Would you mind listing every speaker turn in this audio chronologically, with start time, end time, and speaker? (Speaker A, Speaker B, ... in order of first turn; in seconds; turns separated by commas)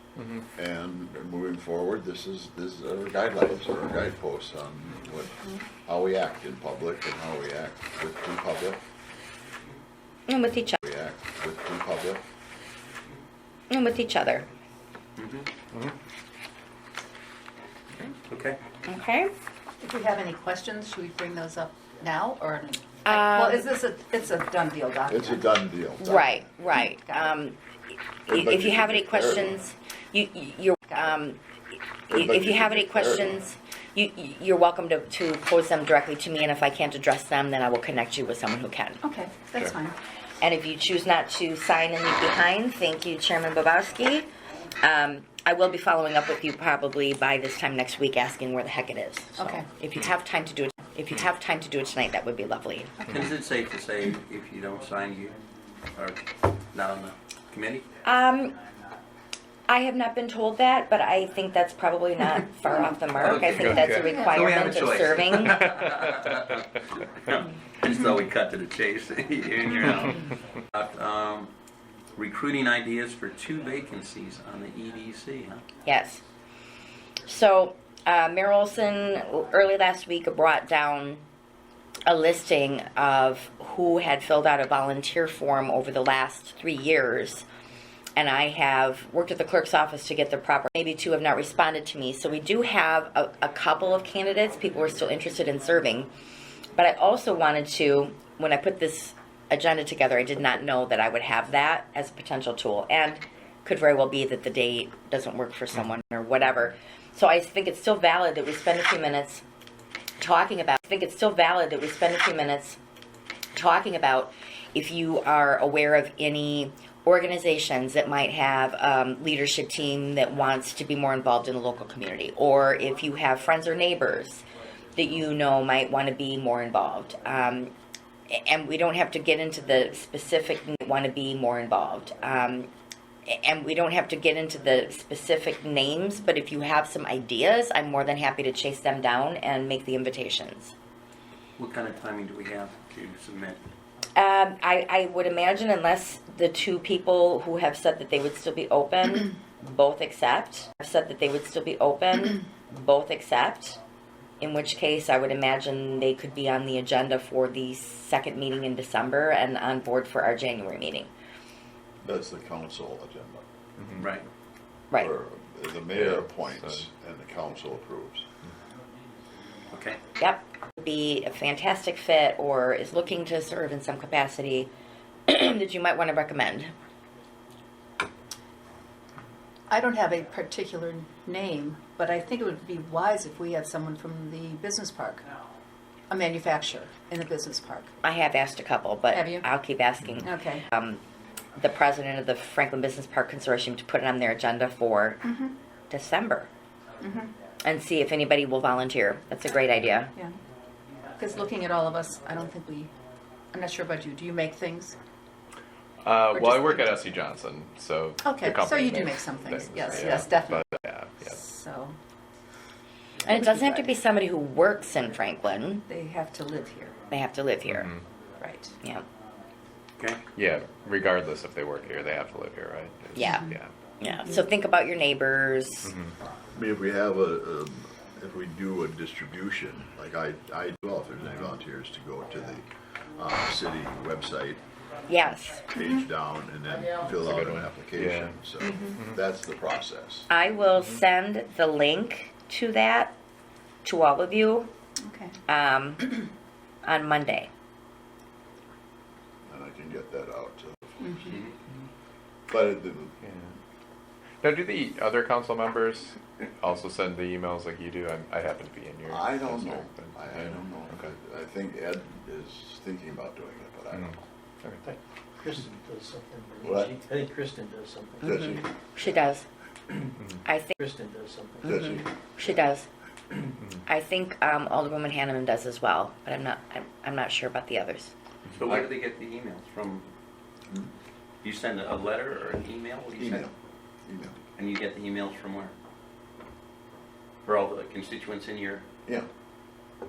Speaker A: 0.5-8.8, Speaker B: 10.3-10.8, Speaker A: 10.8-12.2, Speaker B: 13.7-14.5, Speaker C: 15.2-15.5, Speaker C: 18.0-18.6, Speaker B: 18.9-19.3, Speaker D: 19.8-25.5, Speaker B: 23.0-23.7, Speaker A: 25.1-26.8, Speaker B: 26.0-27.6, Speaker D: 26.8-27.3, Speaker A: 28.2-29.6, Speaker B: 28.3-31.4, Speaker A: 32.1-33.5, Speaker B: 32.1-39.0, Speaker D: 39.0-40.0, Speaker B: 40.4-44.3, Speaker B: 44.8-53.0, Speaker D: 49.3-49.7, Speaker C: 53.0-55.4, Speaker C: 55.9-57.9, Speaker B: 58.0-58.5, Speaker B: 59.7-65.6, Speaker C: 63.1-71.5, Speaker E: 63.4-64.1, Speaker D: 64.0-64.5, Speaker C: 72.1-75.7, Speaker B: 75.8-76.2, Speaker B: 77.3-81.2, Speaker B: 82.0-87.4, Speaker B: 88.2-96.1, Speaker B: 96.7-109.4, Speaker B: 110.2-112.8, Speaker B: 113.5-127.7, Speaker B: 128.3-132.7, Speaker B: 133.3-140.7, Speaker C: 141.6-143.7, Speaker B: 144.2-153.8, Speaker B: 154.4-161.1, Speaker A: 162.0-164.2, Speaker C: 164.0-164.2, Speaker A: 164.9-168.3, Speaker E: 165.9-166.8, Speaker C: 169.7-170.0, Speaker B: 170.2-174.7, Speaker B: 175.3-176.7, Speaker D: 179.7-185.3, Speaker D: 186.1-188.0, Speaker B: 188.0-191.0, Speaker D: 189.1-189.5, Speaker D: 190.2-190.6, Speaker B: 191.6-195.2, Speaker D: 195.2-195.6, Speaker B: 195.9-196.5, Speaker D: 197.0-197.3, Speaker B: 197.6-200.1, Speaker D: 201.2-202.9, Speaker D: 203.5-205.0, Speaker E: 206.0-211.3, Speaker D: 206.3-207.1, Speaker D: 208.2-210.7, Speaker D: 211.2-212.0, Speaker B: 213.2-215.8, Speaker D: 213.2-213.9, Speaker D: 215.8-217.0, Speaker B: 217.1-217.9, Speaker E: 217.6-218.0, Speaker D: 218.4-218.8, Speaker E: 220.3-223.7, Speaker B: 223.2-225.9, Speaker D: 224.2-224.4, Speaker E: 225.8-226.1, Speaker A: 226.5-234.6, Speaker B: 235.1-235.7, Speaker A: 235.7-240.3, Speaker D: 235.7-236.1, Speaker E: 237.2-238.3, Speaker D: 238.6-238.9, Speaker B: 240.3-243.1, Speaker E: 240.8-241.0, Speaker B: 243.8-244.7, Speaker D: 245.0-245.3, Speaker B: 245.5-246.2, Speaker B: 246.8-247.5, Speaker A: 249.4-251.4, Speaker D: 251.0-251.3, Speaker A: 252.5-253.2, Speaker E: 253.2-253.5, Speaker E: 254.4-261.1, Speaker A: 259.1-264.2, Speaker F: 264.8-268.6, Speaker A: 266.6-267.0, Speaker A: 268.2-269.2, Speaker B: 268.2-269.5, Speaker B: 270.4-270.8, Speaker F: 270.8-272.1, Speaker A: 271.6-272.1, Speaker B: 271.7-272.9, Speaker B: 273.9-278.1, Speaker C: 278.6-280.1, Speaker C: 281.4-283.5, Speaker A: 283.1-283.5, Speaker A: 284.1-284.4, Speaker C: 284.6-285.7, Speaker C: 287.4-288.9